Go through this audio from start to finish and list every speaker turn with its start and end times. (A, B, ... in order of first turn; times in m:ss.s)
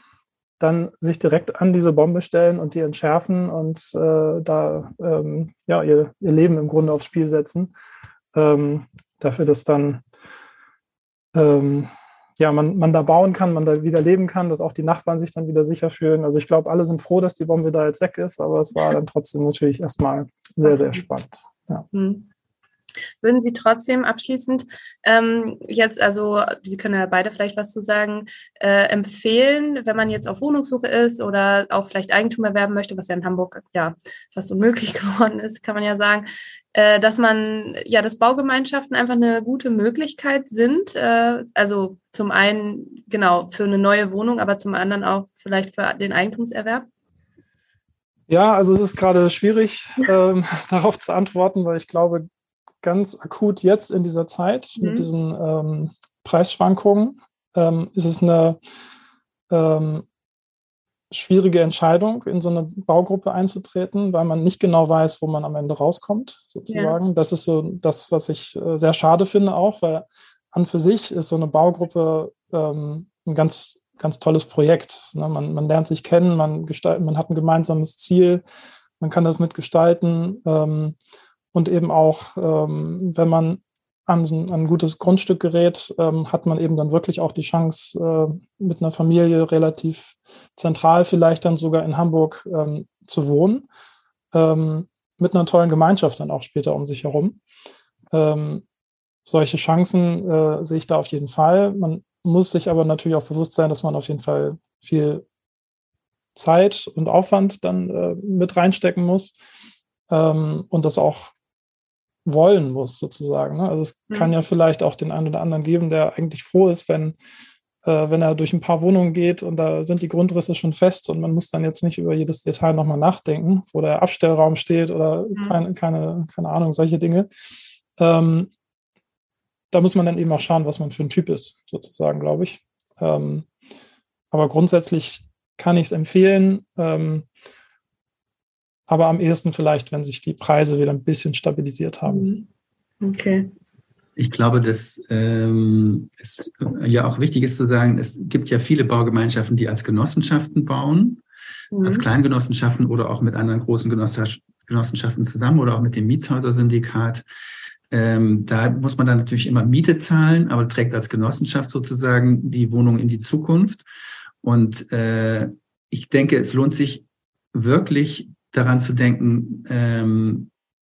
0:00.6-0:07.7 A
0:08.3-0:10.0 A
0:11.4-0:21.8 A
0:20.6-0:20.9 B
0:21.9-0:22.3 B
0:23.2-0:46.9 B
0:48.3-0:52.3 A
0:52.8-0:58.6 A
0:54.8-0:55.1 B
0:59.5-1:00.0 A
1:01.1-1:18.4 A
1:06.7-1:07.0 B
1:19.0-1:21.0 A
1:21.5-1:33.6 A
1:34.3-1:37.4 A
1:38.1-1:38.6 A
1:39.2-1:45.2 A
1:46.4-1:49.4 A
1:50.1-1:51.3 A
1:52.2-1:57.2 A
1:57.8-2:07.3 A
2:08.0-2:08.5 A
2:09.7-2:13.5 A
2:14.3-2:17.3 A
2:18.9-2:22.3 A
2:22.1-2:22.4 B
2:23.0-2:23.5 B
2:24.2-2:31.2 C
2:31.7-2:32.1 B
2:31.8-2:37.2 C
2:37.9-2:43.8 C
2:44.4-2:50.5 C